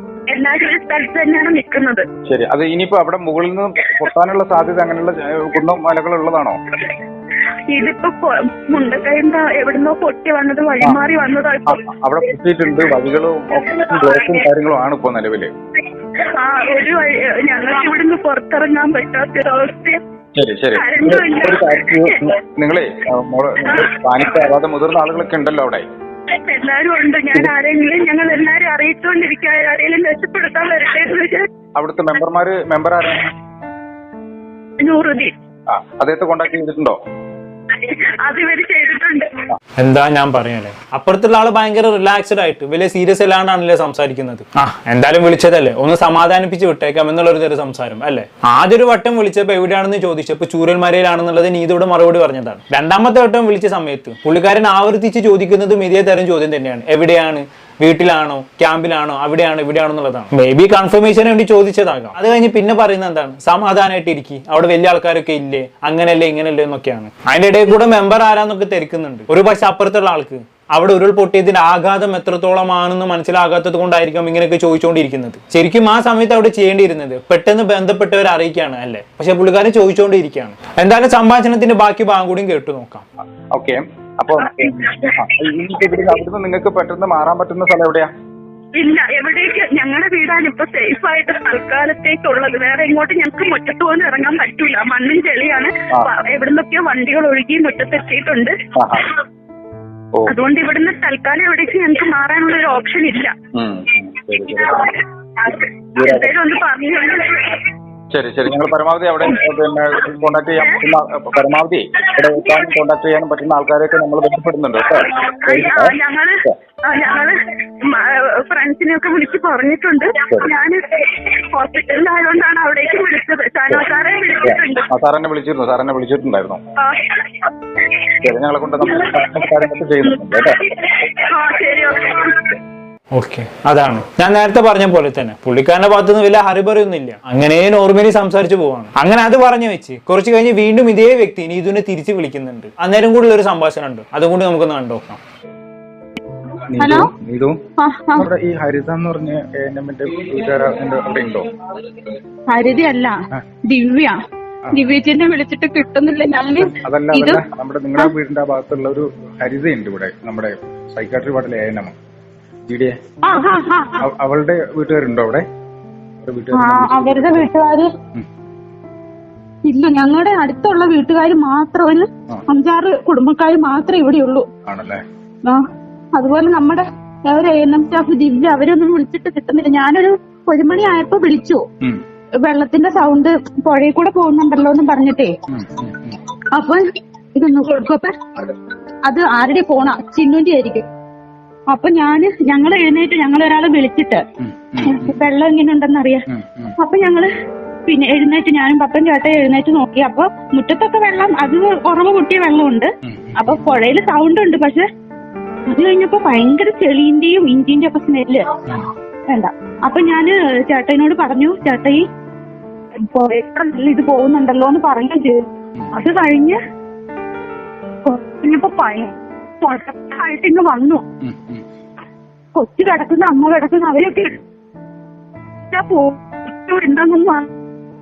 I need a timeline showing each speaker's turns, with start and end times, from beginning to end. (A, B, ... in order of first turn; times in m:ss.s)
0:00.3-0:02.0 A
0:02.3-0:06.6 B
0:07.7-0:11.8 A
0:11.7-0:15.5 B
0:13.8-0:14.4 A
0:16.2-0:20.0 A
0:20.4-0:25.8 B
0:20.7-0:22.2 A
0:23.7-0:23.9 A
0:26.3-0:31.5 A
0:31.8-0:33.2 B
0:34.8-0:35.3 A
0:35.7-0:37.0 B
0:37.7-0:39.3 A
0:39.8-1:23.0 C
1:23.5-1:28.1 B
1:24.6-1:25.1 A
1:28.8-1:38.6 A
1:38.8-1:39.0 B
1:40.3-1:43.3 A
1:43.6-1:45.0 B
1:44.8-1:47.6 A
1:46.0-1:46.3 B
1:48.1-1:56.0 B
1:52.3-1:52.7 A
1:55.1-2:04.9 A
2:04.4-2:06.6 B
2:06.8-2:07.5 A
2:08.2-2:10.6 B
2:08.8-2:09.2 A
2:10.0-2:12.5 A
2:13.1-2:25.2 C
2:26.7-2:27.6 B
2:26.8-2:27.1 A
2:27.8-2:28.3 A
2:28.2-2:31.5 B
2:32.5-2:34.2 A
2:34.7-2:37.4 A
2:36.6-2:42.0 B
2:42.7-2:43.0 B
2:43.2-2:44.0 A
2:44.0-2:45.4 B
2:46.2-2:47.5 B
2:46.5-2:47.9 A
2:49.6-2:54.5 A
2:54.7-2:55.0 B
2:55.5-3:01.6 A
3:02.4-3:05.3 A
3:05.5-3:06.2 B
3:06.5-3:06.8 A
3:07.4-3:08.3 A
3:09.0-3:10.9 A
3:11.7-3:14.2 A
3:14.4-3:15.1 B
3:14.8-3:16.3 A
3:16.3-3:16.8 B
3:16.8-3:17.3 A
3:17.9-3:24.8 A
3:23.1-3:23.6 B
3:25.7-3:28.5 A
3:29.3-3:32.0 A
3:33.0-3:35.4 A
3:35.9-3:36.6 A
3:38.0-3:41.0 A
3:41.2-3:41.6 B
3:42.6-3:44.4 A
3:45.7-3:47.5 A